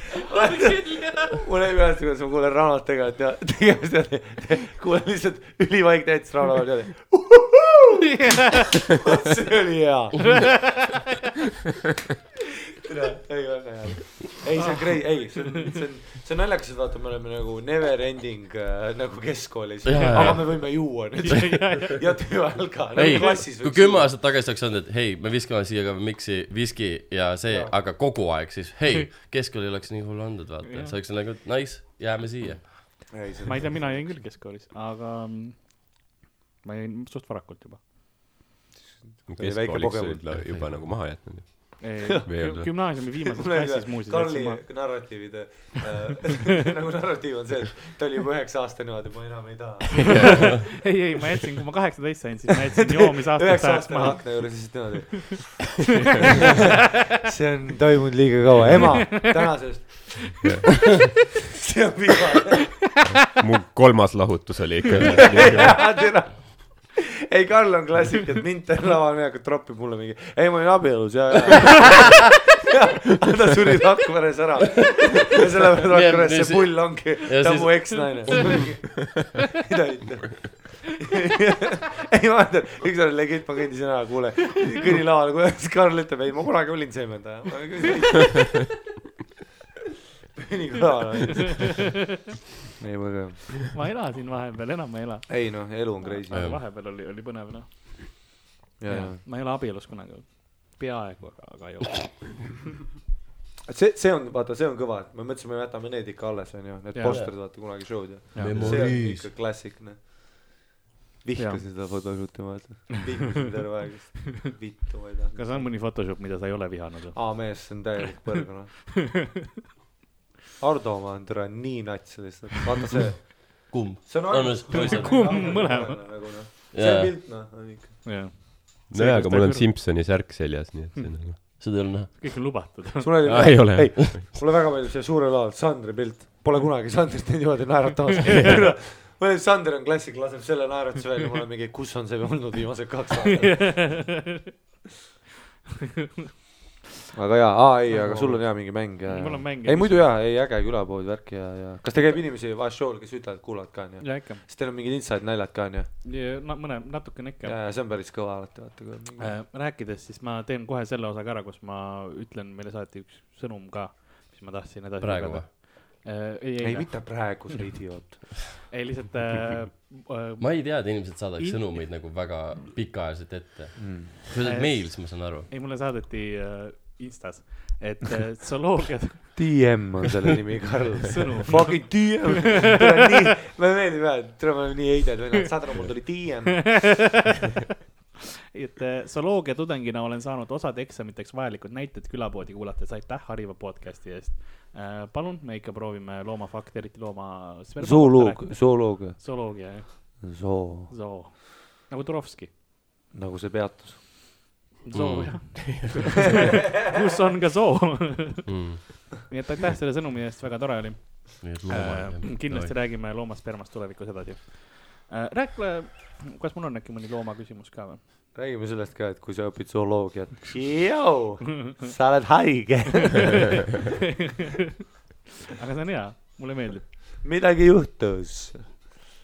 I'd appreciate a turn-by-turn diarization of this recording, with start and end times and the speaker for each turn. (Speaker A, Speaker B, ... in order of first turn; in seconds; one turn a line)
Speaker A: 0.2-10.8
Speaker B: 0.3-1.3
Speaker B: 8.0-8.8
Speaker B: 10.2-11.0
Speaker A: 12.8-24.1
Speaker C: 19.9-20.9
Speaker B: 19.9-22.2
Speaker C: 22.9-33.1
Speaker B: 23.0-23.3
Speaker A: 27.5-27.7
Speaker B: 30.6-31.0
Speaker A: 33.1-34.0
Speaker B: 33.5-35.8
Speaker B: 36.6-37.8
Speaker A: 38.8-40.2
Speaker D: 39.3-42.7
Speaker B: 41.8-44.7
Speaker A: 43.3-50.6
Speaker D: 50.0-50.6
Speaker B: 50.1-54.8
Speaker A: 52.9-55.9
Speaker A: 56.5-60.5
Speaker A: 61.5-62.8
Speaker D: 63.2-65.8
Speaker A: 65.1-88.7
Speaker C: 74.8-75.2
Speaker C: 75.8-78.6
Speaker A: 90.4-92.1
Speaker A: 92.8-93.7
Speaker B: 93.7-95.5
Speaker A: 95.3-96.5
Speaker B: 96.0-98.3
Speaker C: 96.3-96.6
Speaker A: 98.8-99.2
Speaker B: 98.9-102.4
Speaker A: 103.7-110.5
Speaker B: 106.9-107.3
Speaker B: 108.3-108.9
Speaker C: 108.4-109.2
Speaker A: 111.2-115.7
Speaker B: 111.4-111.6
Speaker B: 115.3-117.8
Speaker A: 117.2-118.7
Speaker A: 120.6-128.1
Speaker C: 123.7-125.6
Speaker B: 124.7-126.0
Speaker C: 126.7-127.1
Speaker B: 128.1-129.7
Speaker D: 128.9-131.4
Speaker C: 131.6-132.5
Speaker B: 132.1-133.4
Speaker A: 133.0-144.0
Speaker D: 133.3-134.2
Speaker B: 143.3-144.5
Speaker A: 147.1-155.9
Speaker B: 147.9-150.1
Speaker B: 154.0-154.4
Speaker B: 156.0-157.6
Speaker A: 157.4-159.3
Speaker B: 159.2-167.4
Speaker C: 165.0-165.5
Speaker A: 166.6-168.4
Speaker B: 168.7-170.8
Speaker C: 170.4-175.5
Speaker B: 171.4-171.7
Speaker A: 173.8-174.1
Speaker B: 174.4-179.8
Speaker A: 179.3-187.0
Speaker B: 181.1-182.3
Speaker B: 186.7-187.4
Speaker B: 188.5-200.4
Speaker A: 197.8-200.9
Speaker B: 200.9-202.5
Speaker A: 203.1-204.3
Speaker B: 204.8-208.7
Speaker C: 204.9-205.7
Speaker C: 208.5-209.2
Speaker B: 209.3-218.0
Speaker C: 211.4-212.7
Speaker A: 218.3-223.8
Speaker B: 223.2-223.9
Speaker B: 225.6-226.9
Speaker A: 227.2-228.7